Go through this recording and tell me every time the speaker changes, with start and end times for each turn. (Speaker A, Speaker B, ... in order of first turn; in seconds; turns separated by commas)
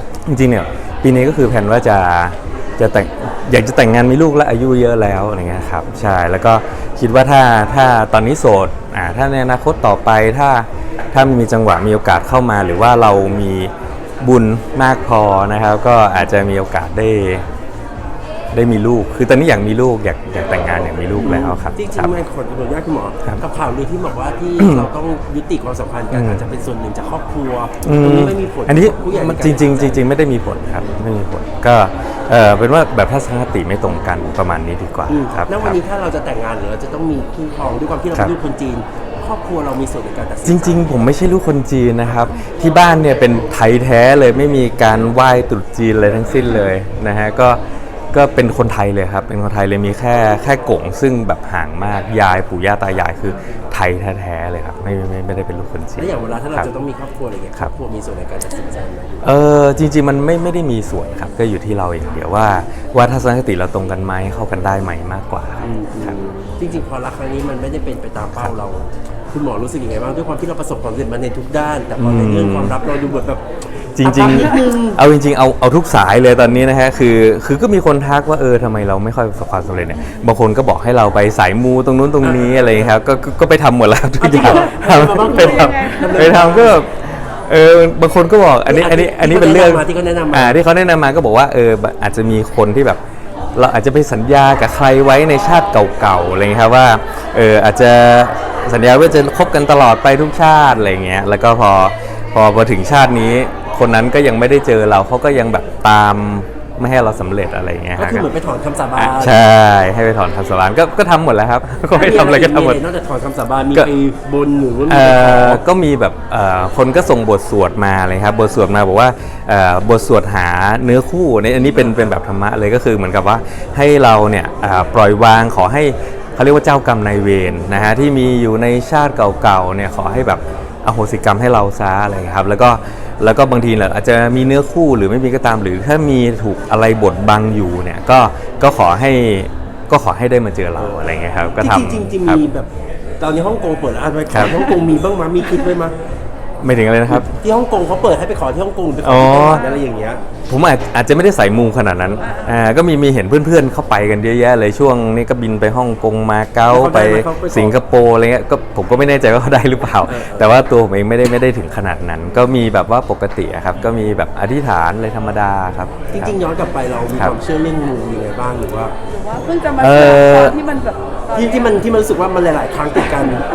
Speaker A: 0.3-17.4, Speaker A: 18.5-22.1, Speaker B: 21.2-30.1, Speaker A: 24.6-24.9, Speaker A: 26.1-26.4, Speaker A: 27.8-35.8, Speaker B: 35.1-40.9, Speaker A: 40.5-47.6, Speaker A: 48.1-56.7, Speaker B: 56.0-59.3, Speaker A: 59.2-66.2, Speaker B: 65.6-73.4, Speaker A: 72.0-72.8, Speaker A: 74.0-93.0, Speaker B: 74.0-75.0, Speaker B: 82.2-82.6, Speaker B: 84.2-86.8, Speaker C: 85.2-86.3, Speaker B: 88.7-90.6, Speaker A: 93.6-108.3, Speaker B: 108.0-109.4, Speaker A: 109.0-112.8, Speaker B: 112.0-115.6, Speaker A: 114.9-142.4, Speaker B: 141.6-145.9, Speaker A: 144.3-144.6, Speaker A: 146.6-147.4, Speaker B: 147.1-150.2, Speaker A: 149.0-149.7, Speaker A: 150.5-166.3, Speaker C: 152.2-152.5, Speaker B: 156.7-157.8, Speaker B: 160.1-160.5, Speaker B: 166.1-168.9, Speaker C: 169.1-171.8, Speaker A: 169.8-170.6, Speaker B: 171.3-173.4